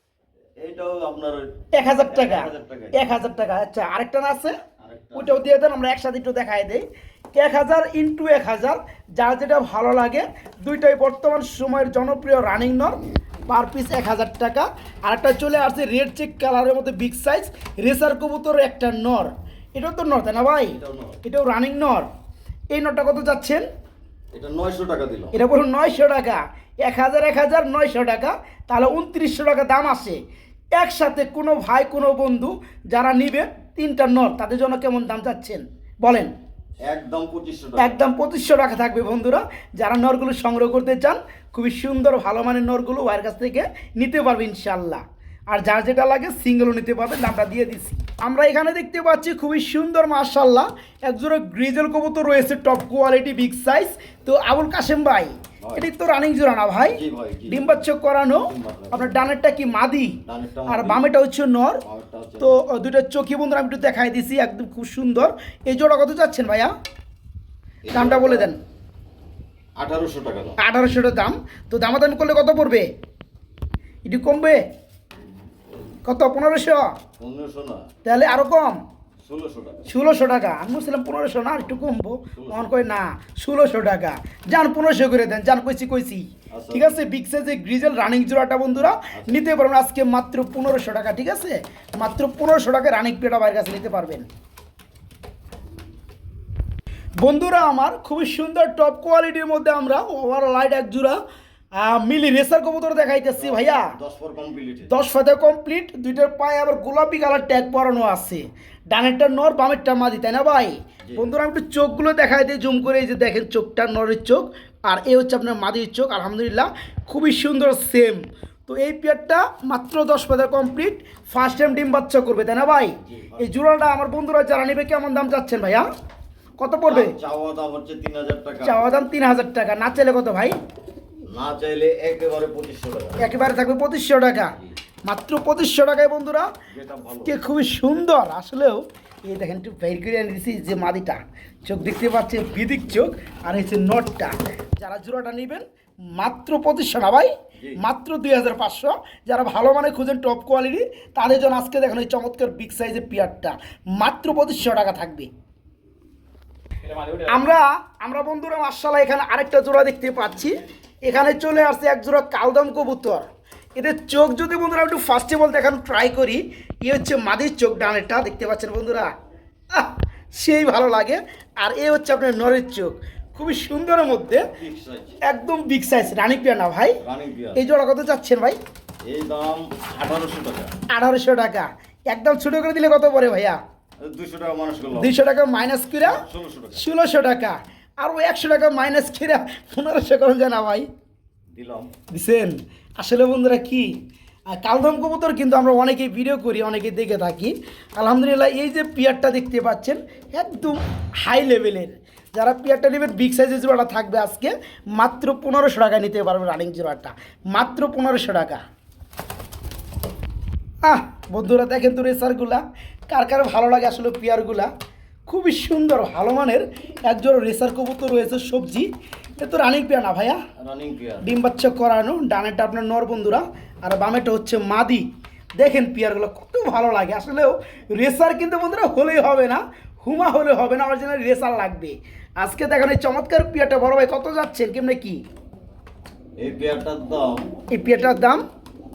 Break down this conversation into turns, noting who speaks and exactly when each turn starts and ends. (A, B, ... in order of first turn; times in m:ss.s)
0:00.6-0:03.1 A
0:01.7-0:04.6 B
0:04.8-0:05.4 A
0:05.2-0:06.8 B
0:07.4-0:13.0 B
0:13.5-0:22.1 B
0:20.7-0:21.2 A
0:22.7-0:23.7 B
0:24.3-0:25.4 A
0:25.3-0:30.2 B
0:30.8-0:36.3 B
0:36.9-0:38.0 A
0:37.8-1:01.8 B
0:56.9-0:57.8 A
0:58.4-0:59.1 A
1:00.3-1:01.0 A
1:01.8-1:02.6 A
1:02.4-1:06.7 B
1:07.9-1:08.6 A
1:07.9-1:08.6 B
1:09.8-1:10.6 A
1:10.6-1:12.9 B
1:14.1-1:14.6 B
1:16.1-1:17.0 B
1:17.2-1:17.9 A
1:18.0-1:18.8 B
1:19.2-1:19.8 A
1:19.9-1:34.3 B
1:22.4-1:22.7 A
1:26.5-1:27.0 A
1:29.0-1:29.4 A
1:37.2-1:41.2 B
1:41.8-1:43.9 B
1:43.4-1:44.9 A
1:44.9-2:05.9 B
2:03.1-2:03.5 A
2:06.6-2:07.2 B
2:06.9-2:08.9 A
2:08.6-2:10.6 B
2:11.3-2:13.3 A
2:13.2-2:16.5 B
2:16.7-2:17.4 A
2:17.3-2:35.3 B
2:37.0-2:49.1 B
2:49.7-2:54.5 B
2:54.4-2:55.2 A
2:55.2-2:57.0 B
2:57.0-2:57.6 A
2:57.6-2:58.6 B
2:59.0-3:00.8 A
3:00.9-3:03.6 B
3:04.0-3:05.1 A
3:04.9-3:06.2 B
3:06.0-3:06.8 A
3:06.8-3:10.9 B
3:11.5-3:11.9 A
3:12.1-3:13.9 B
3:14.5-3:28.6 B
3:30.8-3:34.7 B
3:35.3-3:40.4 B
3:40.6-3:41.3 A
3:41.2-3:45.1 B
3:45.6-3:55.2 B
3:56.4-3:57.5 A
3:57.7-3:58.4 B